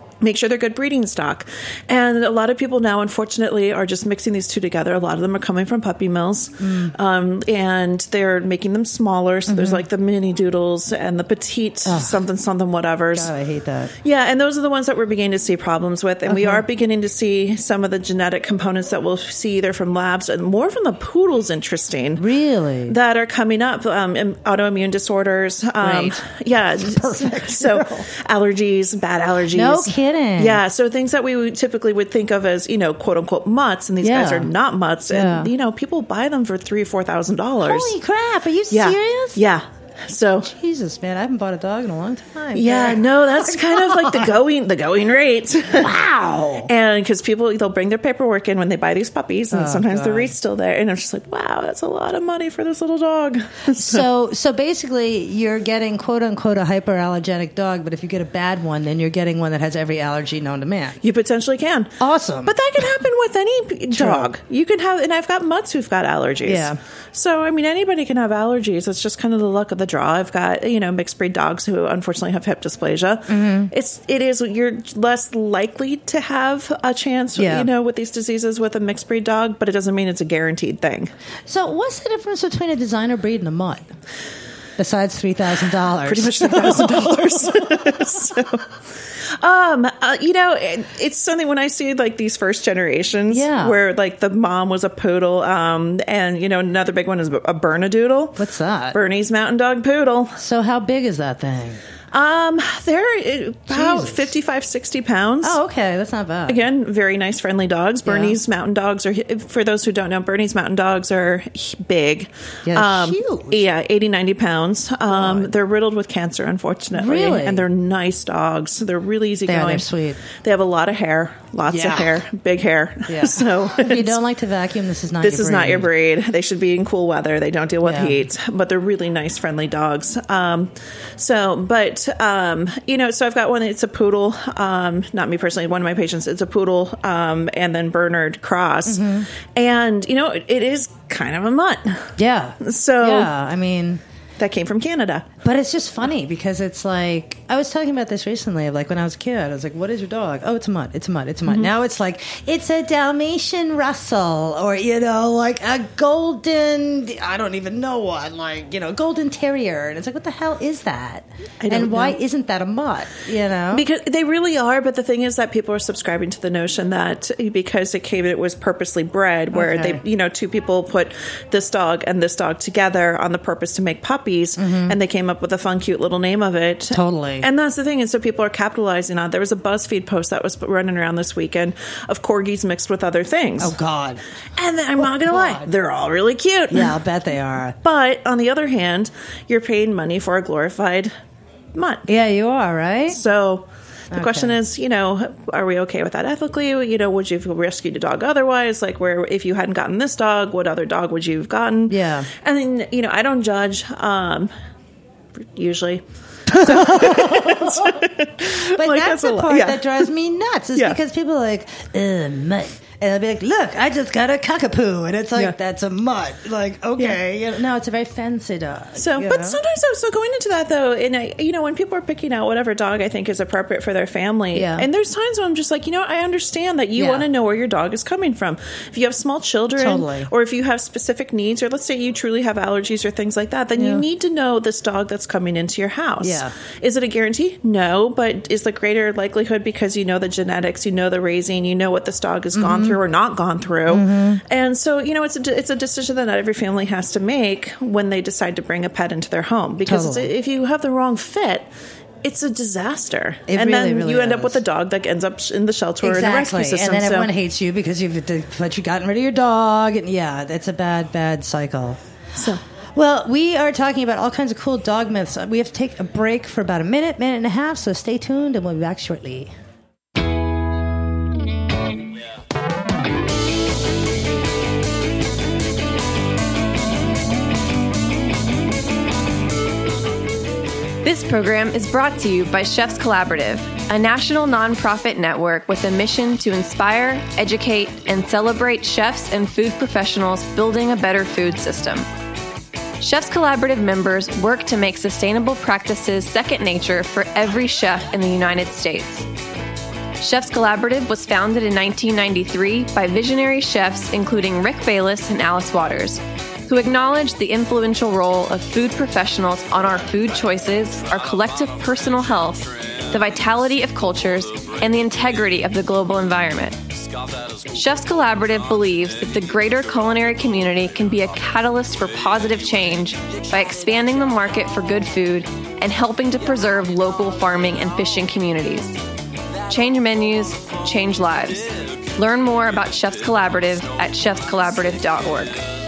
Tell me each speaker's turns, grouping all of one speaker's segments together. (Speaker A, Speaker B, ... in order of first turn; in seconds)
Speaker A: 0.2-13.3, 14.0-22.2, 22.9-37.9, 38.7-40.5, 42.5-46.0, 46.6-54.1, 61.0-81.1, 86.0-88.6, 89.4-98.4, 98.9-100.4, 102.1-105.6, 106.5-124.2, 125.2-143.3, 144.4-145.3, 161.6-162.2, 163.7-183.8, 184.6-187.0, 187.8-191.1, 191.8-192.1, 193.1-204.5, 205.4-210.1, 219.0-251.7, 252.2-257.3, 262.4-262.6
Speaker B: 6.6-7.0, 9.5-9.8, 11.9-12.2, 13.1-13.9, 16.3-16.6, 22.2-23.0, 25.8-26.2, 26.8-28.1, 29.5-30.6, 34.0-34.5, 35.1-35.5, 37.6-39.4, 40.5-44.3, 45.7-46.7, 49.5-50.3, 53.7-61.0, 62.0-62.5, 63.9-64.3, 66.5-66.8, 73.3-73.7, 77.4-77.7, 81.5-83.9, 84.8-87.5, 93.3-93.8, 98.4-99.0, 100.4-101.8, 103.7-104.3, 105.4-106.6, 108.0-108.4, 112.7-113.7, 115.1-115.5, 116.9-117.7, 119.5-120.2, 121.7-122.2, 123.1-125.9, 127.8-128.2, 138.9-139.3, 142.2-144.0, 145.4-163.9, 169.5-170.0, 174.6-175.0, 176.9-177.5, 183.6-184.2, 185.0-185.7, 186.7-187.8, 192.1-193.2, 194.1-194.6, 201.9-202.3, 206.5-219.6, 224.5-224.9, 227.0-227.3, 229.8-230.3, 233.8-234.1, 236.2-236.5, 242.6-243.0, 243.9-244.4, 249.8-250.3, 253.5-254.6, 256.0-262.0, 262.9-269.5
Speaker C: 281.0-292.1, 293.0-299.3, 300.2-316.8, 317.7-329.0, 329.7-335.6